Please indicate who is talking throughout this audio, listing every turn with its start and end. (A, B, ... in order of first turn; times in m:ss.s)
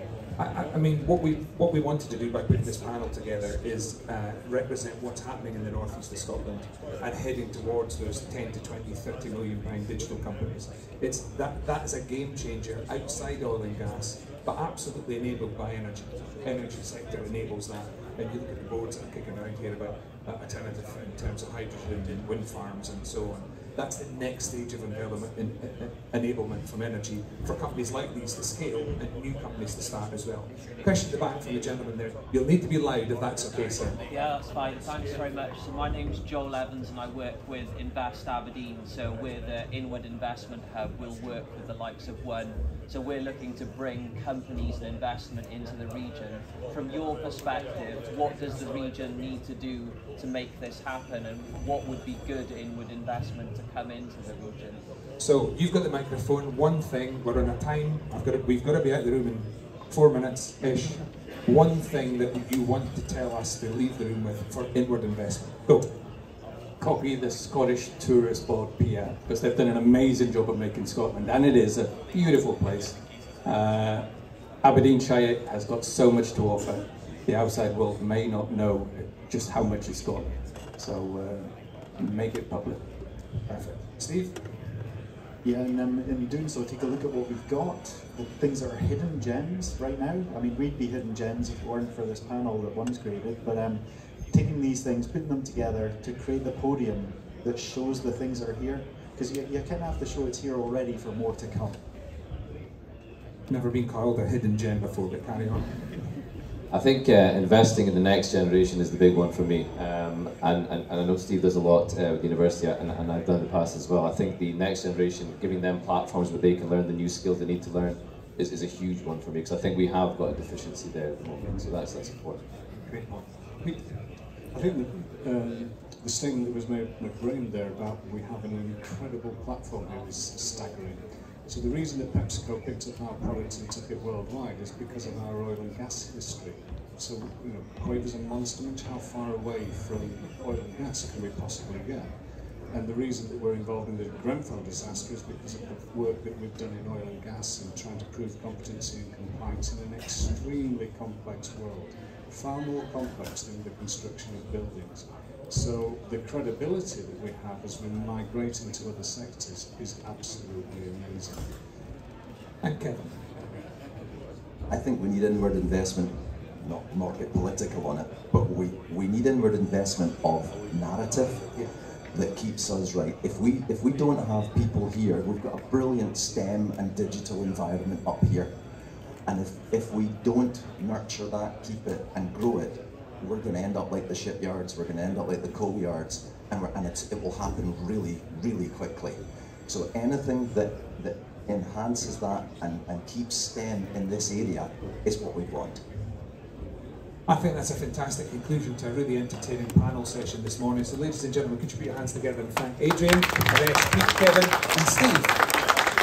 0:00.4-0:34.0 A
0:34.1-0:54.8 B
0:55.2-1:05.9 A
1:06.8-1:22.9 C
1:23.4-1:24.5 A
1:25.4-1:41.8 D
1:43.5-1:46.2 A
1:46.7-2:02.4 E
2:02.8-2:04.0 A
2:04.5-2:41.6 F
2:42.6-2:43.1 A
2:44.7-2:58.5 G
2:59.2-3:15.8 G
3:17.2-3:25.6 A